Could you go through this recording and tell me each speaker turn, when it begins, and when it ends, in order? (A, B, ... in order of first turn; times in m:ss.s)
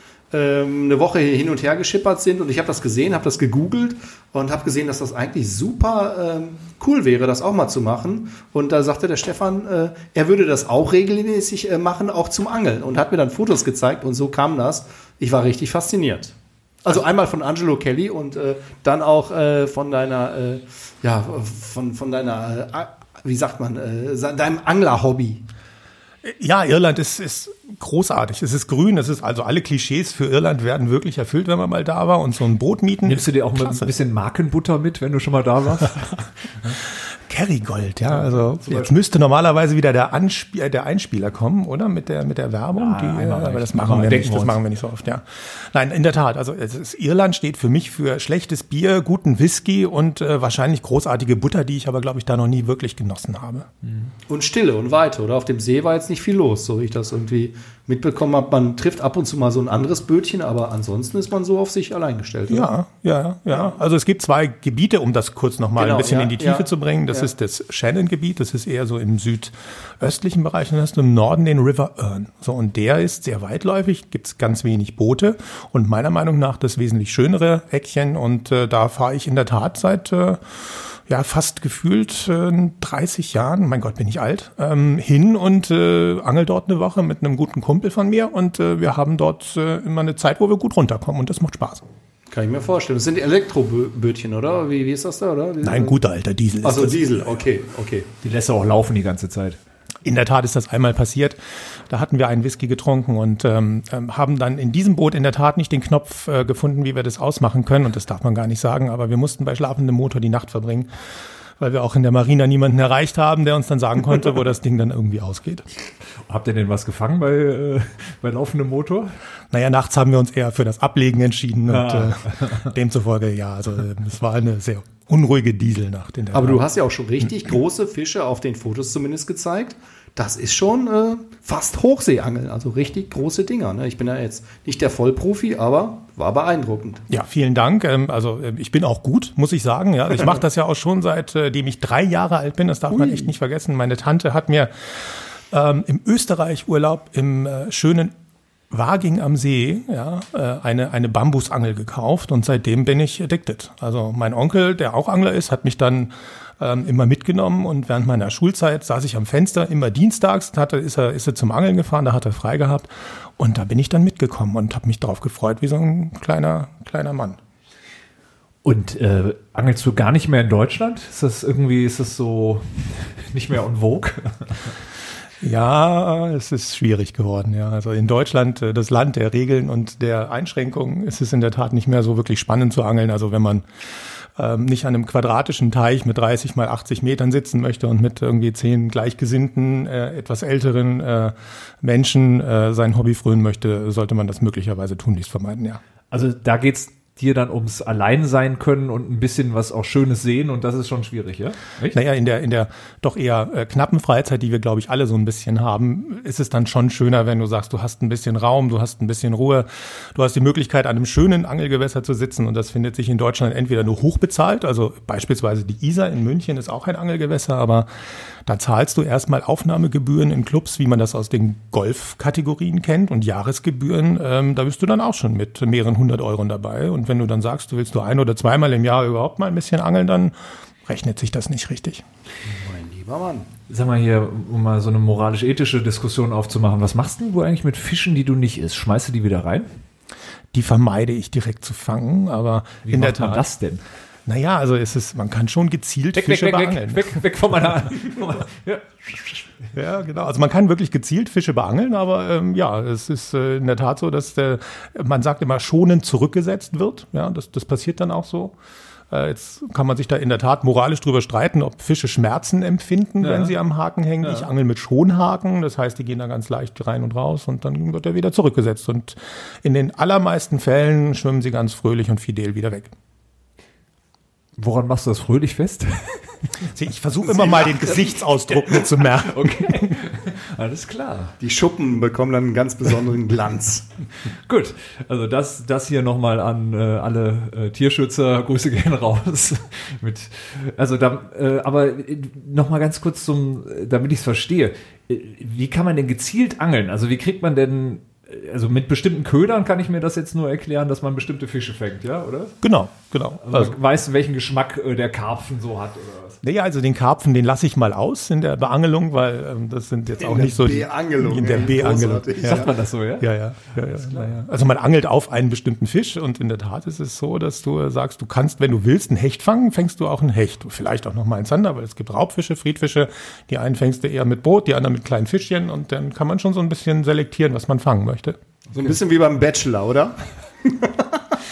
0:00.3-0:16.3 A
0:16.8-0:25.4 A
0:26.2-0:33.9 B
0:33.0-0:36.8 C
0:37.3-0:53.7 B
0:38.1-0:38.9 C
0:42.7-0:44.6 C
0:53.8-0:54.1 C
0:54.3-1:02.7 A
1:02.5-1:31.8 B
1:05.8-1:07.3 A
1:32.3-1:36.0 A
1:35.6-1:37.4 B
1:36.6-1:38.1 A
1:38.2-1:39.6 C
1:40.0-1:50.9 B
1:51.6-1:55.7 B
1:56.3-1:59.2 C
1:59.5-2:06.6 B
2:01.7-2:02.7 C
2:06.3-2:17.0 A
2:17.1-2:28.1 B
2:22.9-2:23.3 A
2:28.7-2:47.4 B
2:48.6-2:54.7 C
2:55.4-3:03.6 B
3:04.4-3:15.8 B
3:16.1-3:22.0 C
3:21.9-3:37.9 B
3:38.4-3:52.0 B
3:52.4-3:53.5 A
3:53.7-3:59.7 C
4:00.5-4:03.4 B
4:02.8-4:03.8 C
4:04.2-4:07.3 B
4:06.1-4:09.5 C
4:09.7-4:18.5 B
4:19.1-4:32.9 B
4:23.2-4:23.6 C
4:24.2-4:24.5 C
4:34.6-4:36.5 C
4:36.7-4:40.0 B
4:37.2-4:38.2 A
4:39.2-4:41.3 C
4:41.4-4:43.9 A
4:44.5-5:02.5 C
5:02.6-5:03.8 B
5:03.4-5:06.4 C
5:06.4-5:28.4 B
5:10.2-5:12.7 A
5:12.4-5:14.3 C
5:28.7-5:31.2 A